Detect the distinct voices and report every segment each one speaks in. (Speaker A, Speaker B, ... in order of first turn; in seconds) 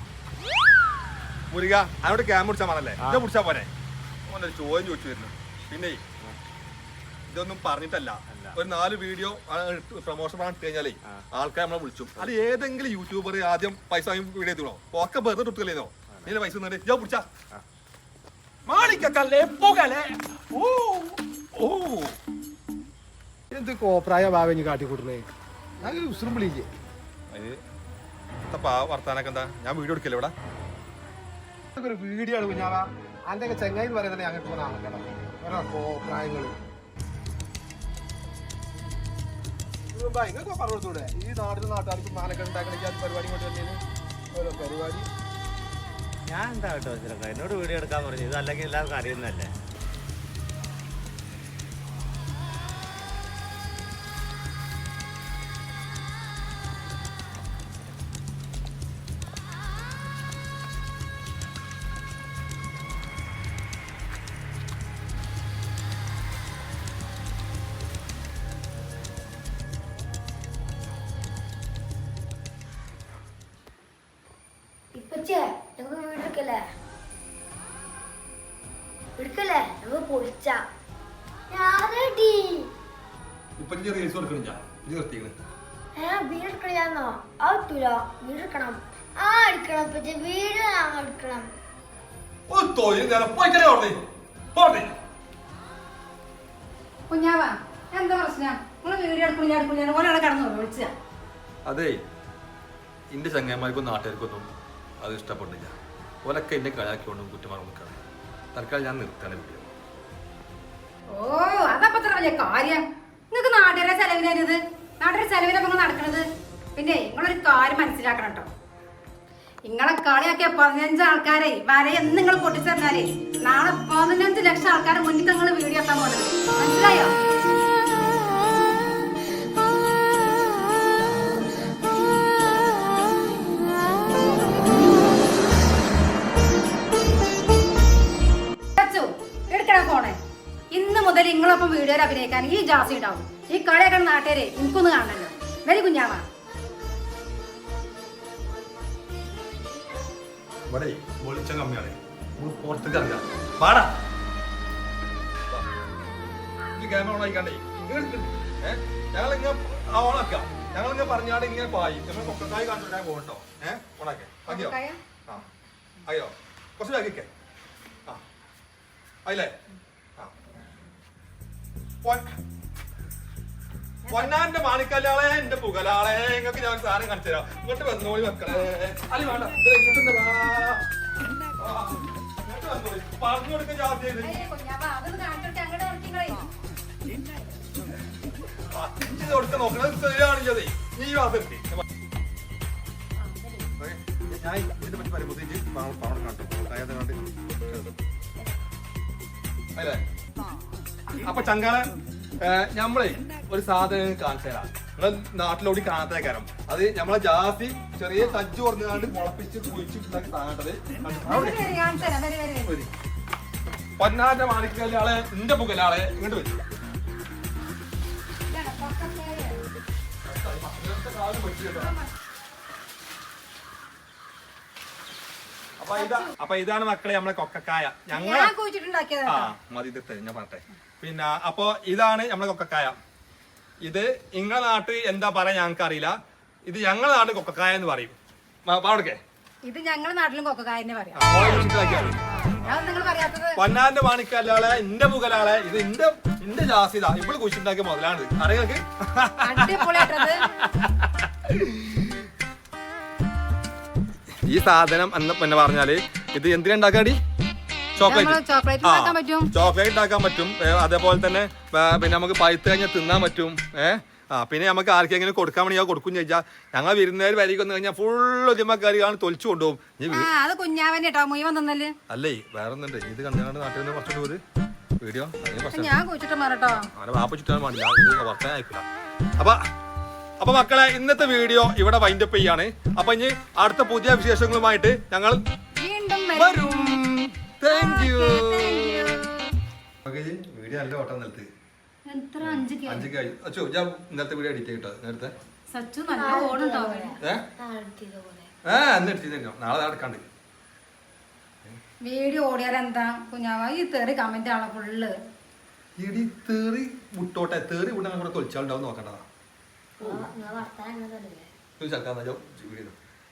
Speaker A: 1.5-3.7, 4.3-6.0, 7.3-17.3, 18.7-22.2, 27.3-27.6, 28.5-30.3, 83.6-85.3, 92.5-94.0, 94.5-94.9, 101.7-102.0, 103.1-104.5, 105.0-108.0, 108.5-109.7, 150.7-153.9, 156.7-164.8, 166.1-167.3, 169.3-169.5, 172.0-172.3, 174.1-180.8, 181.6-184.4, 188.7-191.8, 193.8-197.2, 199.8-200.0, 201.2-212.0, 214.0-216.6, 220.3-221.9, 225.8-228.5, 229.3-233.0, 233.8-238.2, 238.7-239.2, 241.2-242.2, 243.6-252.1, 254.5-257.2, 258.0-270.3, 272.1-274.4, 275.0-275.9, 276.9-278.9, 280.4-285.4, 286.4-289.0, 290.1-291.5, 292.4-295.3, 298.7-300.3, 306.0-309.2, 311.8-312.9
Speaker B: 23.5-25.2, 25.8-26.7, 31.8-36.6, 39.9-43.8, 44.3-45.1
Speaker C: 46.3-49.5
Speaker D: 75.0-76.6, 79.2-80.6, 81.5-82.7, 86.0-91.5, 193.2-193.7, 296.1-298.5, 310.0-311.5
Speaker E: 97.1-100.9, 111.1-118.5, 119.7-127.1, 138.8-140.2, 140.7-146.2, 164.5-165.0, 184.2-186.4, 211.2-212.8, 218.5-219.6, 221.8-222.1, 226.0-226.3, 228.1-229.5, 239.7-241.4, 242.3-243.6, 249.4-250.5, 258.0-259.5, 270.1-271.9, 275.7-276.9, 285.8-286.9, 287.7-289.4, 292.1-293.1, 295.7-297.2, 302.0-305.1